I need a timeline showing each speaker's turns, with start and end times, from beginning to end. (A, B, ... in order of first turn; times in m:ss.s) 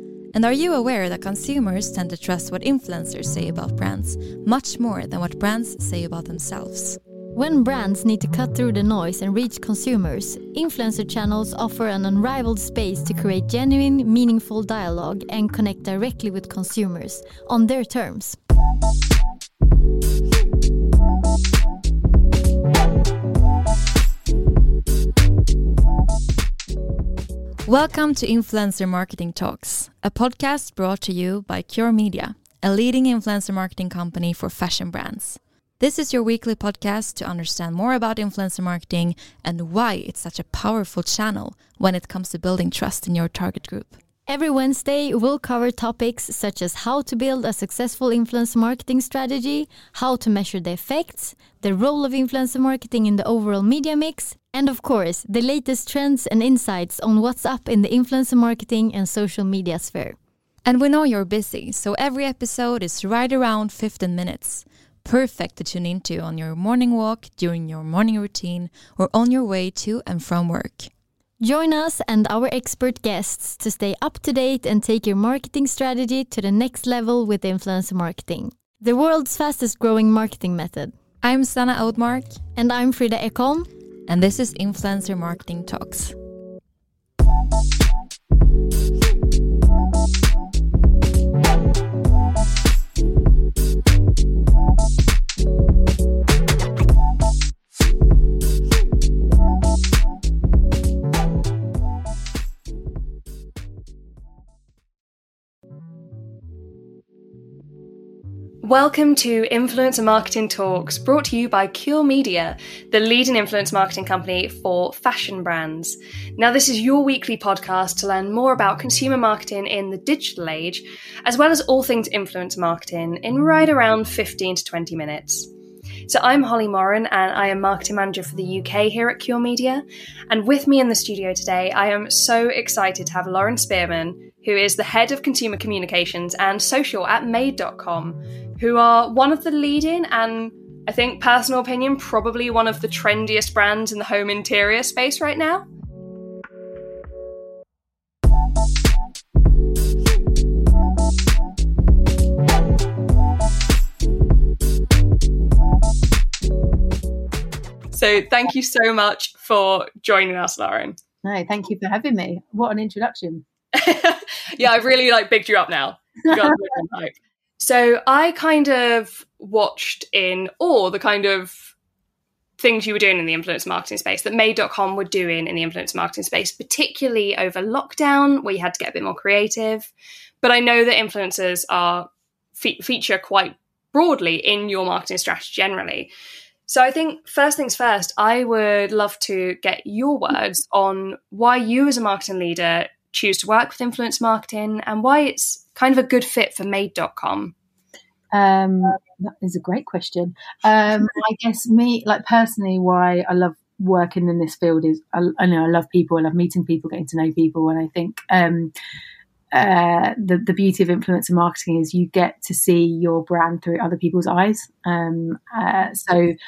0:00.3-0:07.0 A
0:07.3-0:18.4 B
0:27.7-0:44.0 A
0:44.3-1:00.2 B
1:00.6-1:10.9 A
1:11.4-1:20.9 B
1:21.2-1:22.4 A
1:22.5-1:23.7 B
1:24.1-1:26.2 A
1:48.6-2:05.5 C
2:06.1-2:25.7 C
2:37.9-2:41.0 C
2:41.2-2:43.4 D
2:43.8-2:51.6 C
2:52.6-3:06.1 C
3:06.7-3:17.5 C
3:18.3-3:28.7 D
3:29.5-3:36.3 D